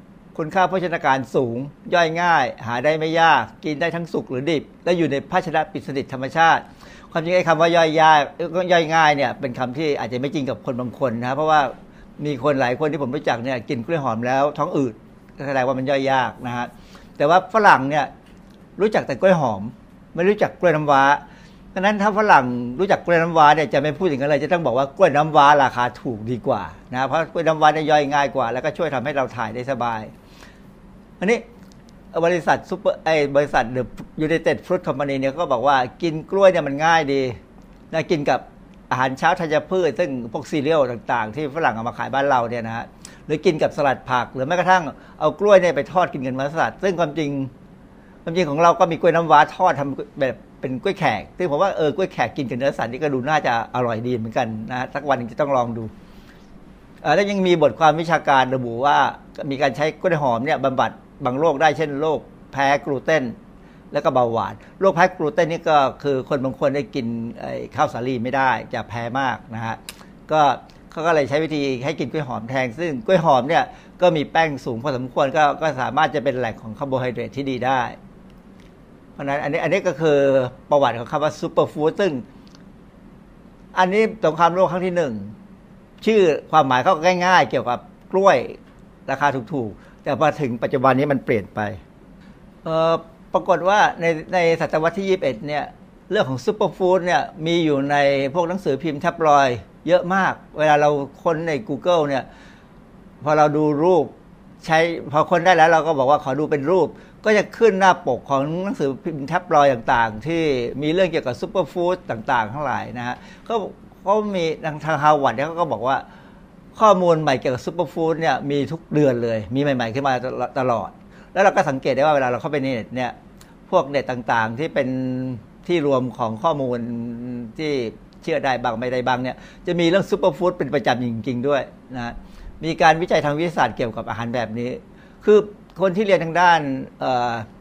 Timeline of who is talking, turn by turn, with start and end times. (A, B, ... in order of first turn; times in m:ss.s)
0:00.4-0:18.1 A
0:18.8-0:21.2 A
0:21.7-0:30.1 A
0:31.2-0:31.4 A
0:32.1-0:37.4 A
0:37.9-0:47.5 A
0:48.2-0:55.9 A
0:57.0-1:03.4 A
1:03.9-1:18.0 A
1:19.2-1:22.2 A
1:23.7-1:25.3 A
1:26.0-1:31.8 A
1:32.6-1:42.3 A
1:43.2-1:56.0 A
1:56.8-2:03.2 A
2:03.7-2:17.5 A